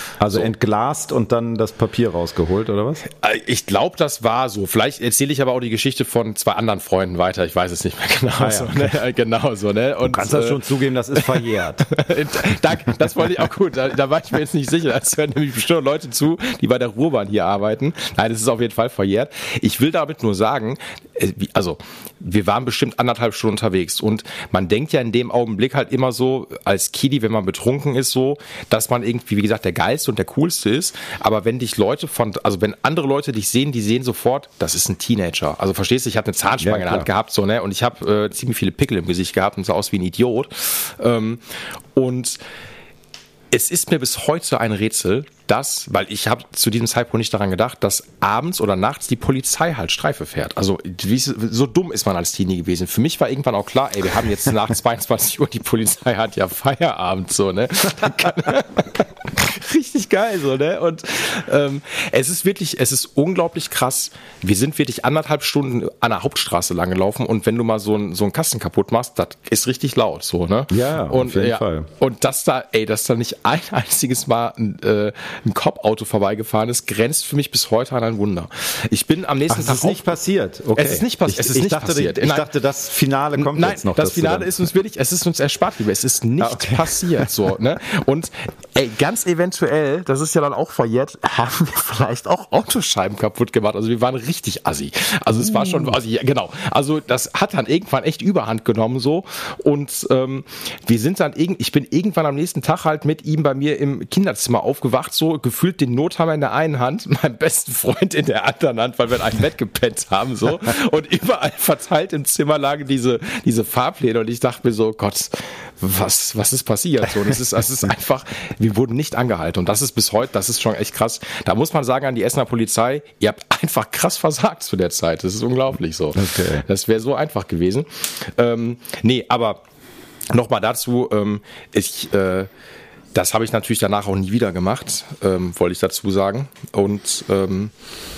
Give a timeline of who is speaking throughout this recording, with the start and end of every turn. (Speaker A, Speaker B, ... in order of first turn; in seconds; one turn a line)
Speaker A: 0.2-3.0
Speaker B: 3.0-10.6
Speaker A: 8.4-8.9
Speaker A: 10.1-11.9
Speaker B: 11.1-41.4
Speaker A: 36.6-37.1
Speaker B: 42.0-42.4
Speaker B: 43.5-80.1
Speaker A: 70.7-71.9
Speaker A: 79.5-84.5
Speaker B: 80.8-82.5
Speaker B: 83.4-129.6
Speaker A: 86.4-87.3
Speaker A: 95.3-96.0
Speaker A: 126.1-126.7
Speaker B: 130.3-132.5
Speaker B: 133.1-137.7